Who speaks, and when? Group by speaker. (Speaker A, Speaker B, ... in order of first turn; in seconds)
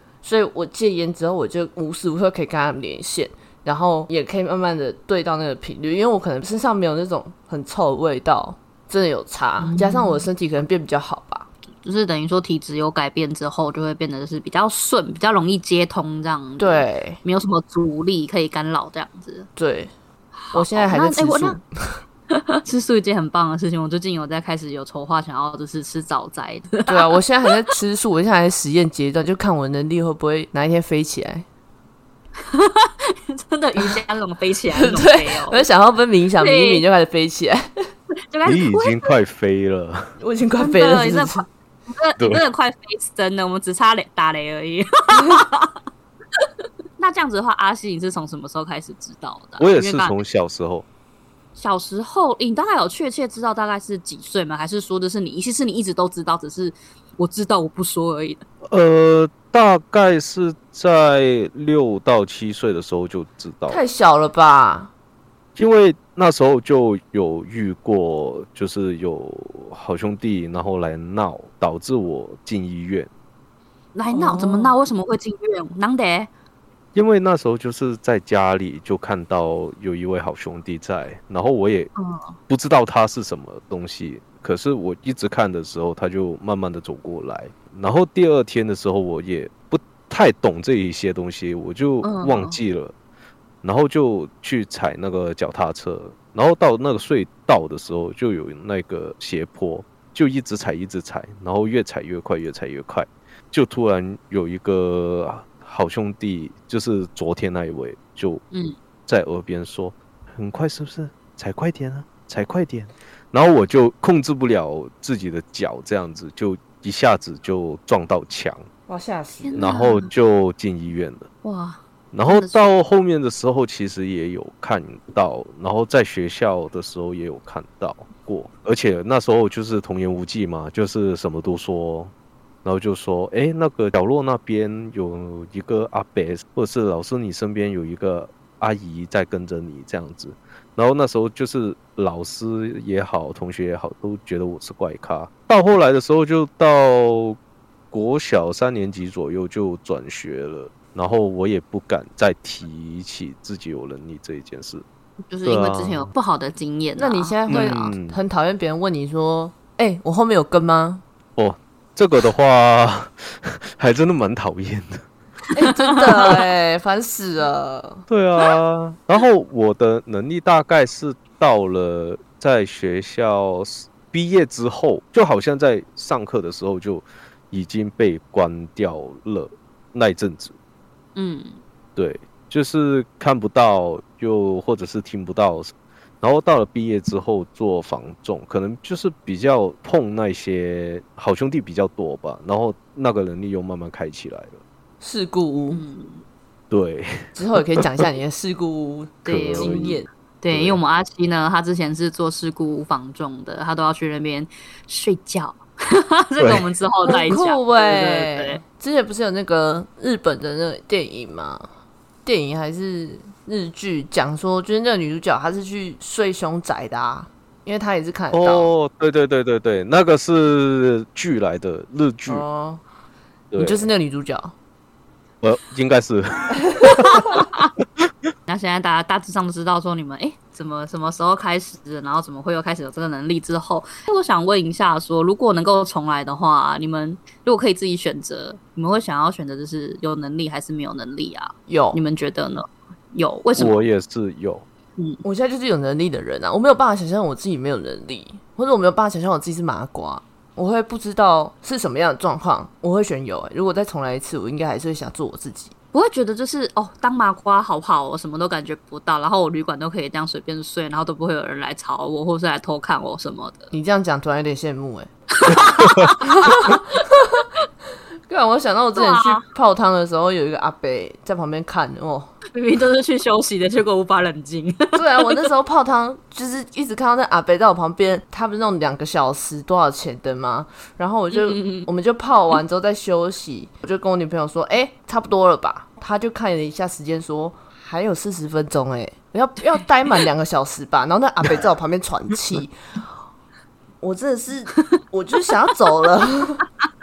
Speaker A: 0.2-11.5, 16.6-17.2, 19.6-19.9, 20.5-22.0, 26.9-31.4, 34.8-37.9, 40.2-41.5, 63.7-64.9, 74.1-74.8, 118.9-119.6, 157.0-161.0, 165.5-168.0, 195.0-195.8, 197.3-200.1, 207.1-211.7, 212.2-218.7, 222.3-222.8, 223.6-224.5, 241.7-242.0, 245.2-255.7, 263.7-265.1, 266.2-267.5, 268.3-272.3, 274.9-292.8, 294.0-296.6
Speaker B: 9.6-10.2, 11.8-19.5, 20.4-21.6, 22.3-27.2, 32.5-35.7, 36.4-36.8, 38.3-39.1, 40.6-45.7, 47.0-50.1, 51.5-58.4, 73.9-76.3, 82.0-82.4, 92.0-92.6, 108.5-108.8, 119.4-120.1, 121.4-122.7, 155.3-157.7, 165.8-166.4, 181.2-181.6, 195.7-196.2, 199.2-208.6, 226.9-227.7, 228.5-243.8, 245.0-245.2, 255.9-263.7, 265.4-266.8, 268.9-269.4, 272.5-275.4, 281.3-281.9
Speaker C: 38.4-40.1, 49.6-50.9, 58.7-63.8, 65.5-73.1, 76.9-81.9, 82.5-92.9, 93.6-108.4, 109.1-118.7, 119.5-121.3, 122.1-132.1, 132.6-147.4, 147.9-154.8, 155.4-156.1, 157.5-158.2, 161.4-165.0, 168.1-180.5, 181.9-194.6, 196.7-198.0, 199.3-199.9, 200.5-200.8, 206.4-206.7, 218.3-222.5, 223.5-223.9, 225.4-227.4, 243.6-244.6